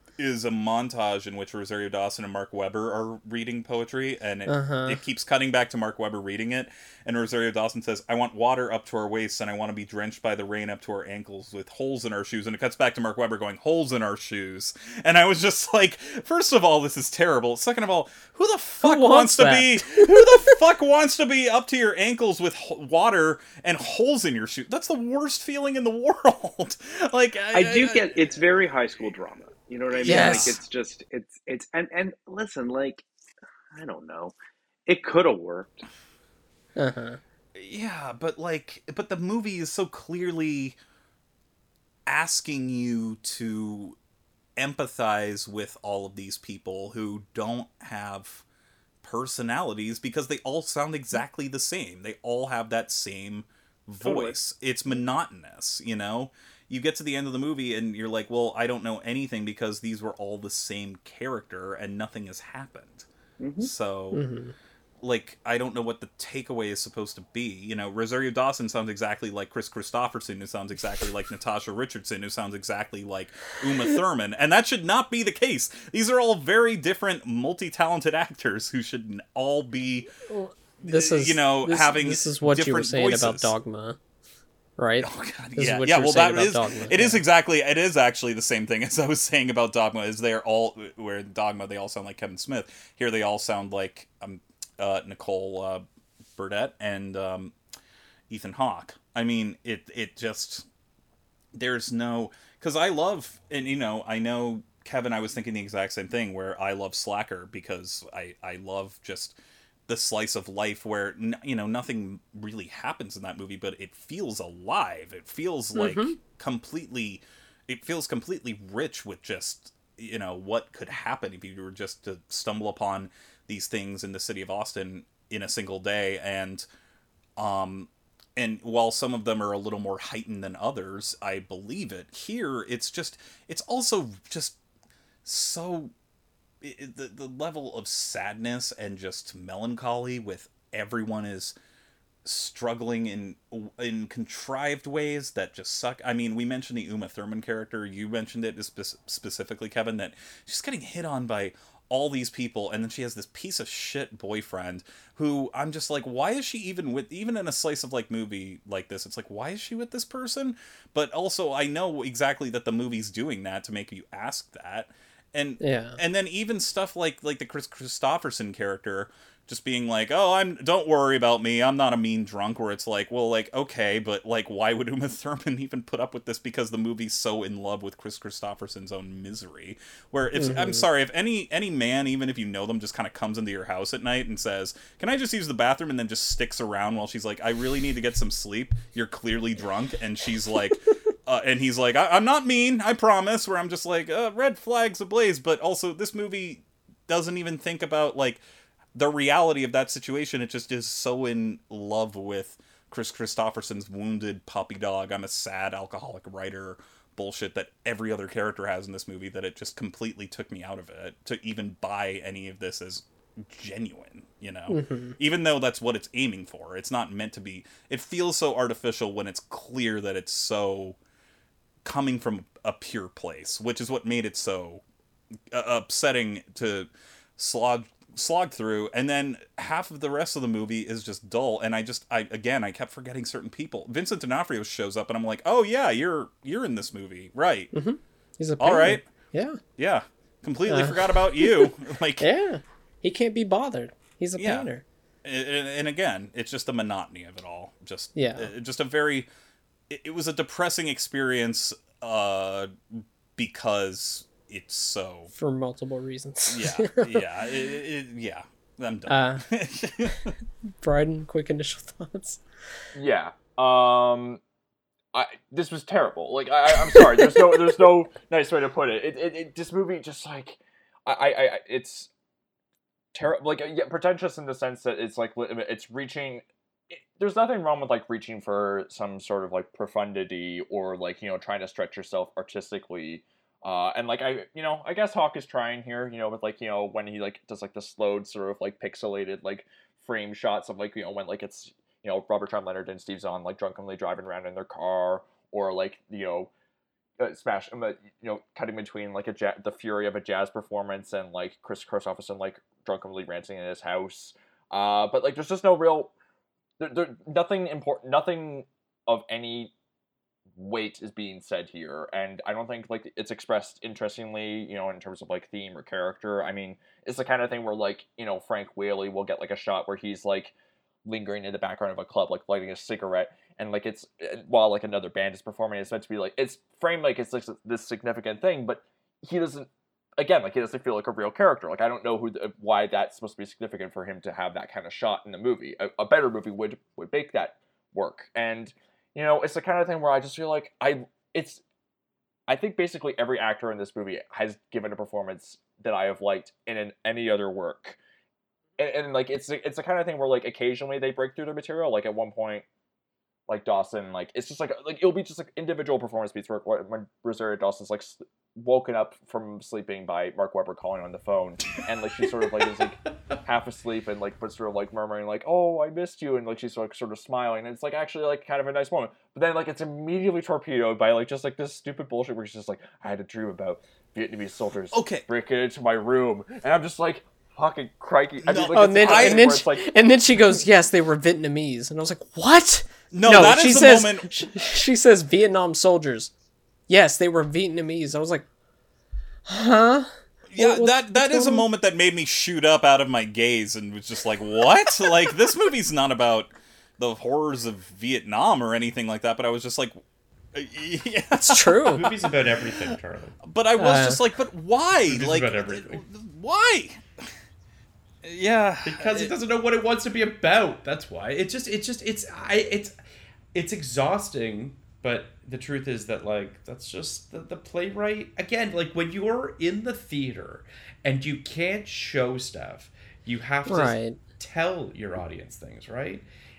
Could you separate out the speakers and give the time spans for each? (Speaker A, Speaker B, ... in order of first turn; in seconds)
Speaker A: 0.2-28.3, 29.9-30.6, 37.5-40.8, 42.1-44.0, 44.6-48.4, 49.0-63.1, 63.6-64.2, 65.0-80.1, 80.8-83.5, 85.0-95.8, 96.4-97.5, 98.3-100.7, 101.5-126.7, 127.4-134.6, 135.2-135.9, 136.6-141.6, 142.2-198.4, 198.9-221.0, 221.8-224.8, 225.5-237.7, 238.6-239.1, 239.8-242.3, 244.4-244.7, 245.2-249.3, 249.9-255.3, 256.5-260.3, 374.9-375.2, 378.4-379.6, 383.1-384.3, 390.5-400.0, 400.5-402.2, 403.4-407.3, 408.2-409.4
Speaker B: 4.5-5.0, 18.8-20.6, 30.0-30.6, 36.8-37.2, 64.1-64.5, 80.3-84.0, 84.8-87.2, 115.7-116.2, 165.6-166.0, 180.4-180.8, 214.7-215.2, 237.7-239.6, 240.7-244.8, 248.1-248.5, 255.3-257.2, 259.1-259.4, 260.8-262.4, 378.7-386.3, 386.9-388.4, 389.5-391.7, 401.3-402.1, 403.8-404.2, 423.6-424.2
Speaker C: 27.5-33.0, 33.7-34.3, 34.9-35.8, 54.0-54.4, 63.4-63.7
Speaker D: 262.9-264.4, 265.1-272.1, 273.1-296.5, 297.2-306.1, 306.8-309.7, 310.5-320.5, 321.0-341.6, 342.5-348.0, 348.8-352.6, 353.5-379.9
Speaker E: 362.6-362.9, 401.9-403.4, 405.1-406.0, 408.8-413.0, 413.5-426.3